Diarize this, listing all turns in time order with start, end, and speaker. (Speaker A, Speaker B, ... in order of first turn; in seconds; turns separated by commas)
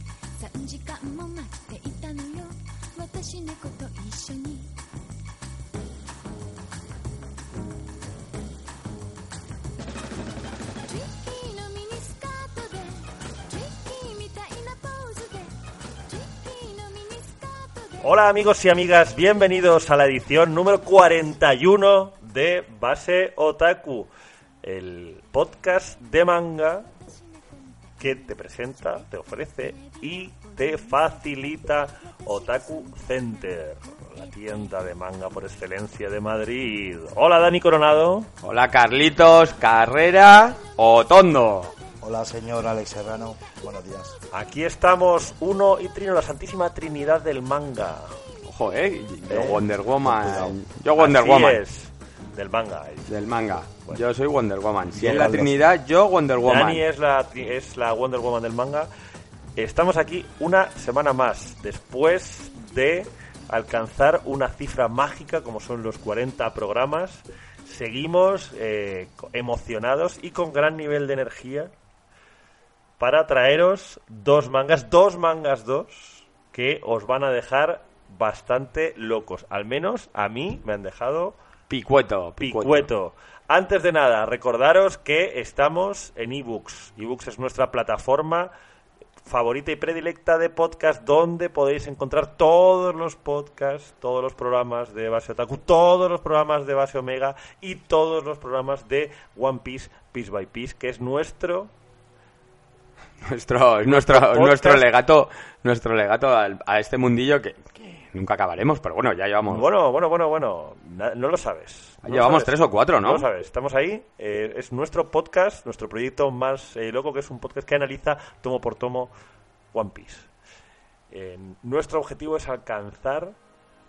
Speaker A: 0.4-4.7, Speaker A: 10.8-15.6, Speaker A: 16.1-18.2, Speaker B: 18.0-24.1, Speaker B: 24.6-26.9, Speaker A: 27.2-28.3, Speaker B: 28.0-38.3, Speaker A: 28.9-34.7, Speaker C: 38.4-41.7, Speaker D: 42.0-44.2, Speaker B: 44.3-48.2, Speaker C: 48.5-51.6, Speaker B: 49.3-49.7, Speaker D: 50.0-50.5, Speaker B: 51.0-53.2, Speaker C: 53.1-56.9, Speaker B: 54.9-55.6, Speaker B: 56.4-58.9, Speaker B: 59.6-71.7, Speaker B: 73.0-81.4, Speaker C: 81.7-82.9, Speaker B: 82.4-88.5, Speaker B: 89.2-101.7, Speaker C: 103.2-109.7, Speaker B: 103.9-104.9, Speaker B: 109.5-119.1, Speaker C: 112.0-113.3, Speaker B: 119.7-120.3, Speaker B: 121.1-123.3